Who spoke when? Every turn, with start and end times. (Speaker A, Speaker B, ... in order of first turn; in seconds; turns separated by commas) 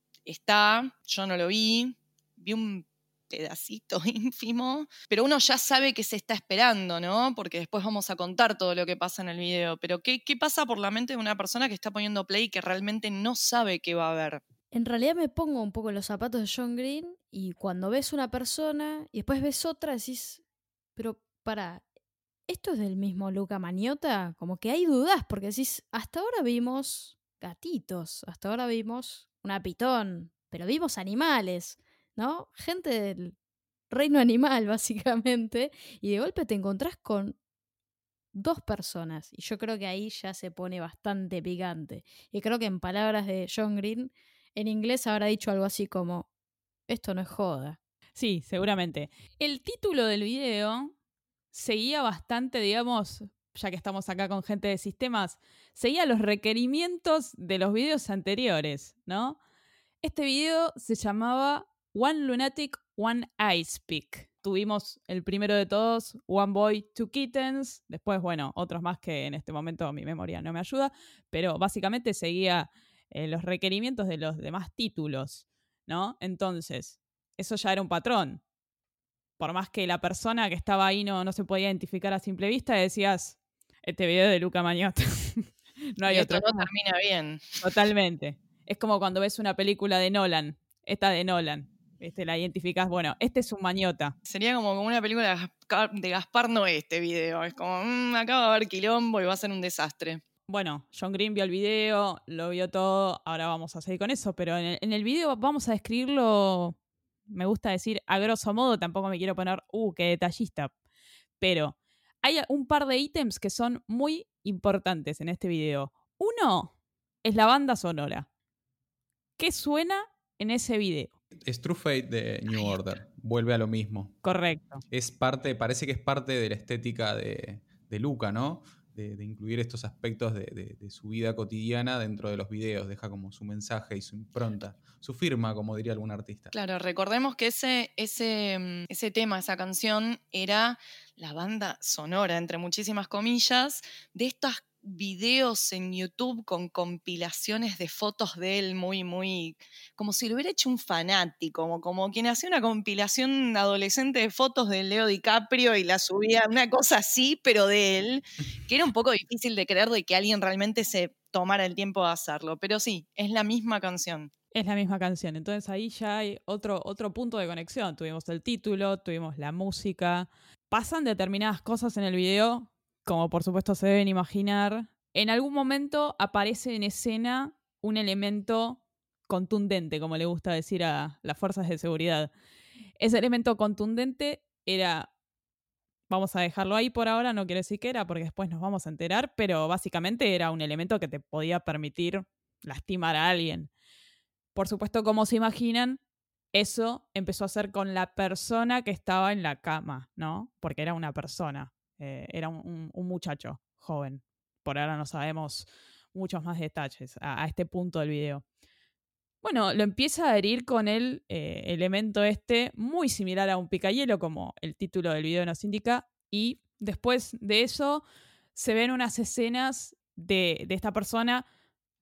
Speaker A: 0.3-14.4, Speaker B: 14.7-20.4, Speaker B: 21.0-21.8, Speaker B: 22.5-33.4, Speaker B: 33.9-37.4, Speaker B: 38.3-46.3, Speaker B: 46.9-47.8, Speaker C: 48.2-50.9, Speaker C: 51.5-59.4, Speaker C: 60.0-78.4, Speaker C: 79.4-86.7, Speaker A: 86.1-87.6, Speaker C: 87.6-94.2, Speaker A: 94.3-100.2, Speaker C: 100.5-106.8, Speaker C: 107.3-110.7, Speaker C: 111.4-118.3, Speaker C: 119.4-121.1, Speaker D: 121.5-124.2, Speaker C: 124.2-124.8, Speaker D: 124.9-136.5, Speaker A: 136.5-164.3, Speaker C: 164.5-182.3, Speaker C: 183.0-185.1, Speaker C: 186.1-193.7, Speaker C: 194.6-196.0, Speaker C: 196.5-208.4, Speaker C: 209.4-218.0, Speaker C: 218.6-221.4